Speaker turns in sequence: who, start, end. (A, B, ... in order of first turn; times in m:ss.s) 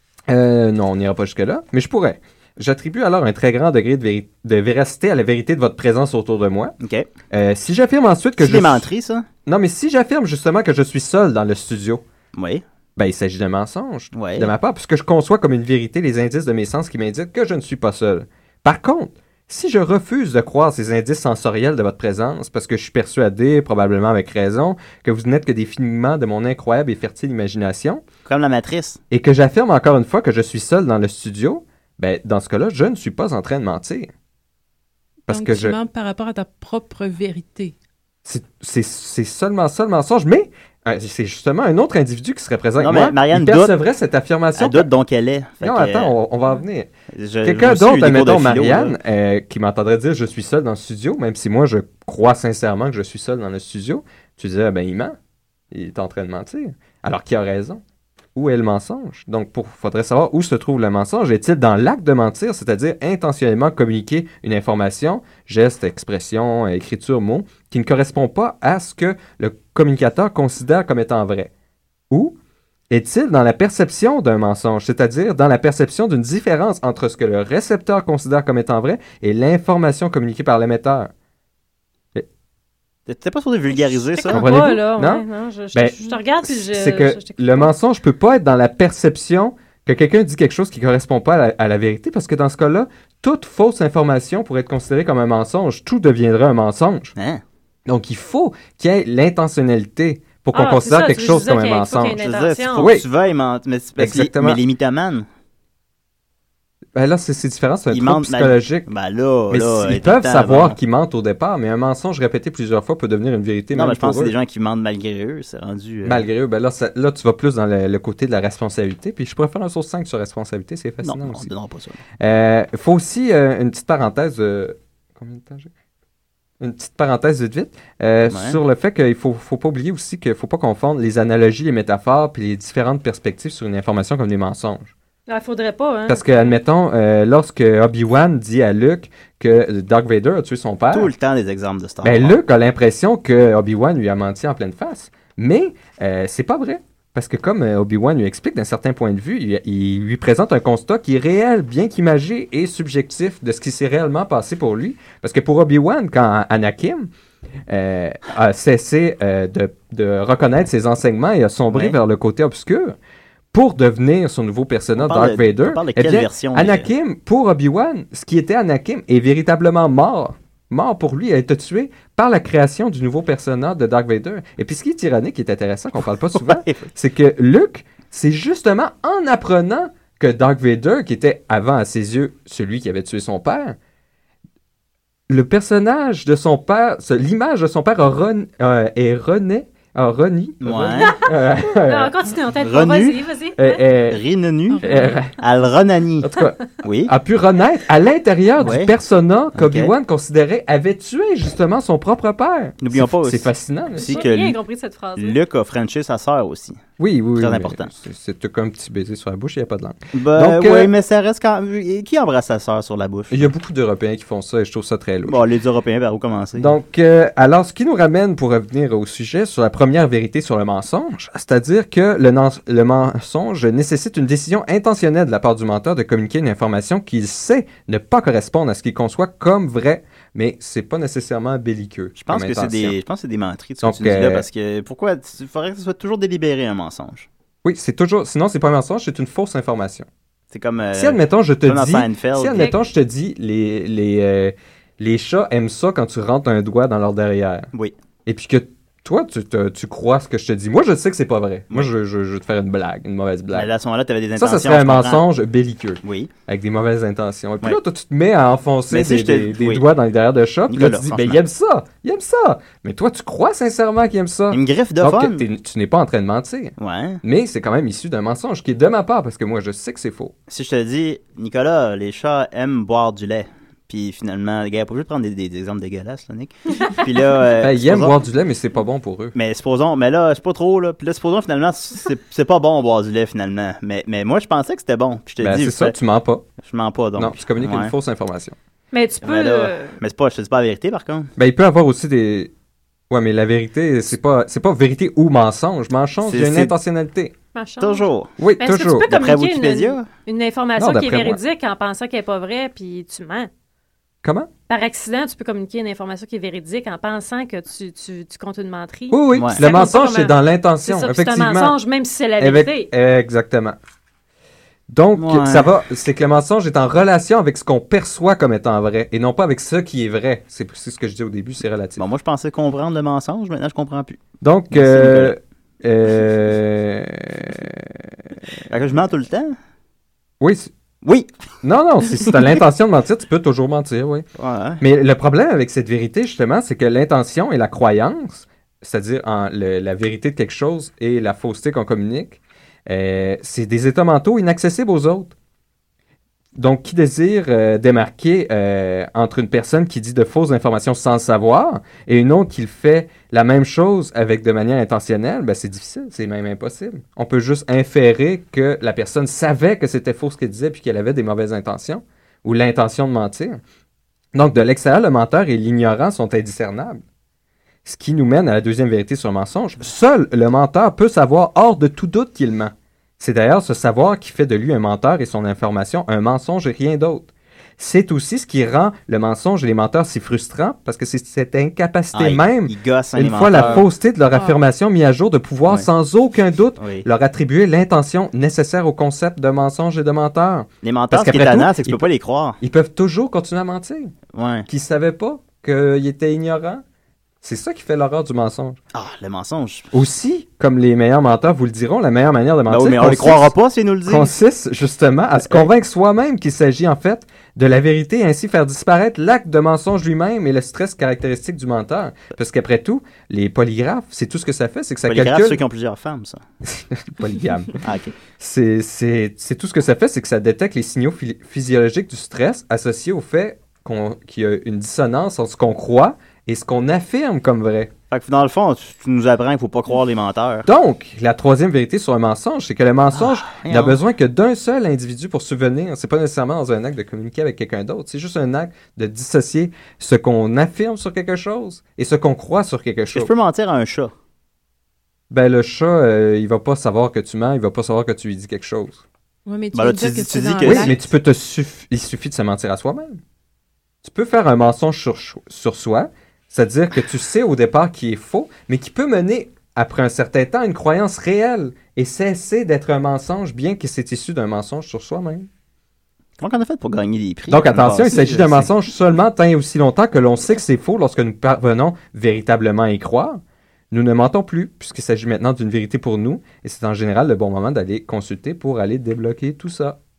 0:00.3-0:06.8 A
0:06.8-0:07.1 B
0:07.3-0:08.9 A
0:08.4-0:09.3 B
0:09.5-0:12.0 A
0:12.4-0:12.6 B
0:13.0-0:28.0 A
0:14.1-0:14.5 B
0:28.2-0:29.0 B
0:29.1-0:34.1 A
0:35.3-0:35.8 A
0:35.3-0:37.7 C
0:38.2-0:44.9 A
0:42.8-0:43.8 B
0:44.6-0:46.2 B
0:45.6-0:46.9 A
0:47.1-0:49.0 B
0:47.4-0:55.2 A
0:55.7-0:57.8 A
0:58.4-1:11.5 A
1:12.1-1:12.4 A
1:12.9-1:21.1 A
1:23.1-1:24.5 B
1:23.8-1:27.7 D
1:24.3-1:37.1 A
1:37.2-1:37.4 B
1:37.9-1:42.2 A
1:40.5-1:42.9 D
1:42.2-1:45.3 B
1:42.8-1:43.1 A
1:44.0-1:44.6 A
1:47.0-1:48.9 A
1:47.9-1:50.8 B
1:49.5-1:54.3 A
1:53.8-1:56.3 B
1:56.0-2:01.5 A
2:01.0-2:02.0 B
2:02.2-2:05.7 A
2:06.6-2:14.9 A
2:08.3-2:08.6 B
2:15.3-2:16.2 D
2:16.1-2:21.1 A
2:20.9-2:22.4 B
2:22.0-2:37.1 A
2:37.7-2:43.0 A
2:41.7-2:42.0 B
2:43.5-3:03.8 A
2:45.0-2:46.9 B
2:56.3-2:56.9 B
3:05.3-3:12.1 A
3:10.6-3:11.1 B
3:11.3-3:13.8 D
3:12.6-3:13.2 B
3:13.6-3:14.2 A
3:14.1-3:14.8 B
3:14.7-3:15.2 C
3:14.8-3:15.4 A
3:15.4-3:16.3 B
3:16.2-3:24.3 A
3:16.8-3:17.1 B
3:18.6-3:18.9 B
3:19.6-3:19.9 B
3:22.8-3:24.6 B
3:24.0-3:25.4 D
3:25.2-3:26.8 B
3:27.0-3:30.9 A
3:27.4-3:27.9 B
3:30.1-3:33.5 B
3:33.3-3:35.4 A
3:35.2-3:36.8 B
3:36.6-3:53.0 A
3:52.2-3:57.3 B
3:53.8-3:54.5 A
3:57.6-4:00.1 A
4:00.5-4:02.7 B
4:00.9-4:07.7 A
4:08.3-4:13.7 A
4:13.5-4:15.2 B
4:14.4-4:30.3 A
4:16.0-4:16.3 B
4:18.9-4:19.8 B
4:20.7-4:21.4 B
4:24.5-4:25.4 B
4:26.8-4:27.2 B
4:30.5-4:38.2 B
4:37.6-4:39.4 A
4:39.4-4:46.0 B
4:45.4-4:46.4 A
4:46.6-4:47.9 B
4:47.2-4:48.6 A
4:48.9-4:50.0 D
4:49.2-4:51.3 B
4:51.4-4:52.5 A
4:53.1-4:57.3 A
4:56.2-4:56.7 B
4:57.6-4:58.1 D
4:57.8-4:58.3 B
4:58.4-4:59.1 A
4:58.6-5:03.5 D
4:59.1-5:00.1 B
5:00.8-5:01.4 A
5:04.2-5:04.5 A
5:04.7-5:12.9 D
5:09.1-5:11.8 A
5:09.3-5:09.6 B
5:12.4-5:13.8 A
5:14.9-5:22.0 A
5:15.2-5:15.7 B
5:22.0-5:25.4 B
5:24.4-5:28.2 A
5:28.7-5:29.6 B
5:30.4-5:30.7 A
5:31.0-5:31.3 B
5:31.6-5:34.3 A
5:34.4-5:34.8 B
5:34.8-5:45.3 A
5:46.6-6:03.6 A
6:04.3-6:07.0 A
6:07.8-6:32.1 A
6:22.1-6:23.9 B
6:26.8-6:27.0 B
6:30.8-6:32.6 B
6:32.6-6:34.2 A
6:34.3-6:34.7 B
6:34.7-6:36.8 A
6:37.4-6:38.8 A
6:38.9-6:39.9 B
6:39.9-6:43.6 A
6:42.7-6:44.3 B
6:44.1-6:55.6 A
6:45.4-6:45.7 B
6:55.0-6:56.4 B
6:56.7-6:57.8 A
6:57.8-6:58.2 B
6:58.4-7:07.9 A
7:08.1-7:10.7 B
7:10.7-7:23.3 A
7:13.1-7:14.0 B
7:23.1-7:24.1 B
7:25.3-7:29.0 A
7:29.5-7:31.0 C
7:29.7-7:30.9 B
7:30.6-7:33.2 A
7:34.0-7:45.5 A
7:46.4-7:48.7 B
7:47.5-8:00.0 A